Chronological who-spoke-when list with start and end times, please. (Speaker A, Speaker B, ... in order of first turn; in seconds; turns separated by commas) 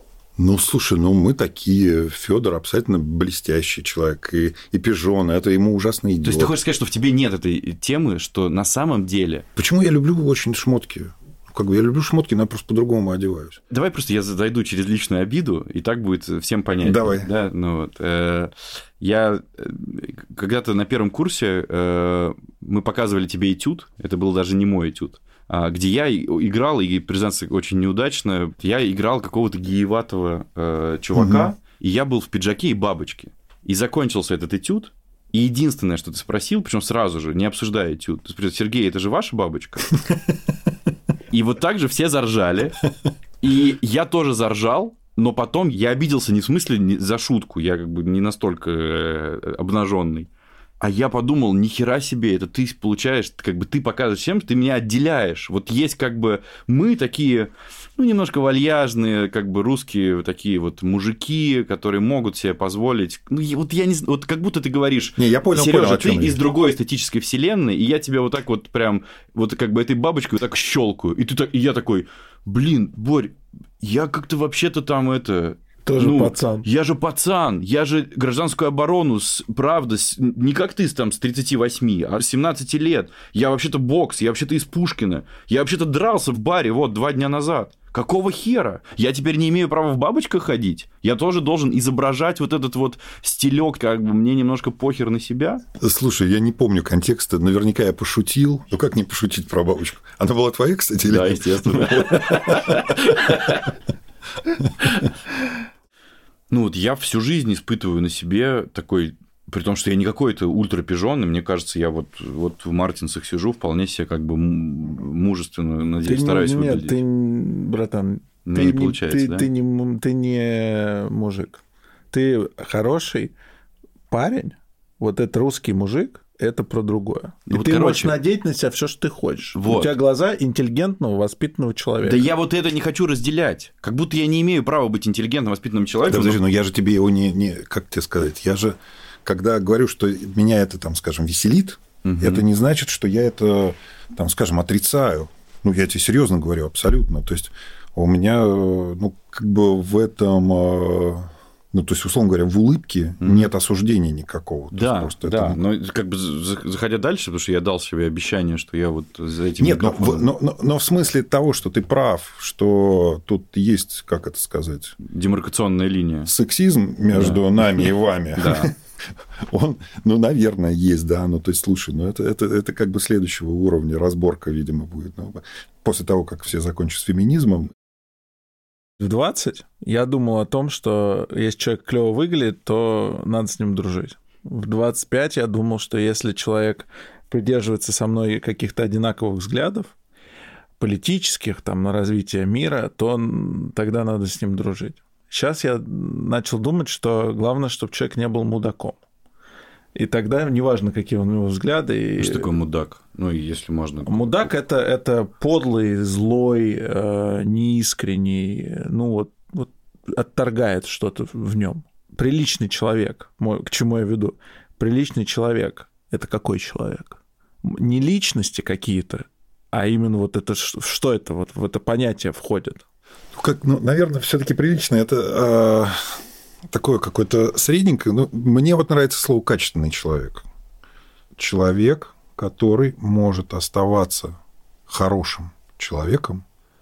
Speaker A: 0.4-6.5, Speaker B: 6.2-9.4, Speaker A: 9.6-13.6, Speaker B: 13.7-40.0, Speaker A: 16.8-17.3, Speaker A: 31.1-31.5, Speaker B: 41.3-42.9, Speaker B: 43.4-50.3, Speaker B: 50.8-95.6, Speaker A: 65.2-66.4, Speaker C: 75.8-76.7, Speaker A: 95.8-103.3, Speaker B: 101.1-103.6, Speaker B: 106.5-117.0, Speaker C: 116.0-123.3, Speaker B: 118.5-119.5, Speaker C: 124.1-132.2, Speaker B: 127.5-128.2, Speaker B: 129.5-129.9, Speaker B: 132.0-136.4, Speaker A: 136.1-155.6, Speaker B: 142.0-142.4, Speaker B: 153.2-153.5, Speaker B: 154.7-160.3, Speaker A: 159.6-164.9, Speaker B: 165.0-166.3, Speaker A: 166.2-168.7, Speaker B: 167.1-168.7, Speaker A: 169.4-177.7, Speaker C: 179.0-189.9, Speaker C: 190.8-199.0, Speaker C: 199.9-202.5, Speaker B: 202.2-204.4, Speaker C: 204.1-222.8, Speaker A: 223.3-230.4, Speaker A: 231.3-236.4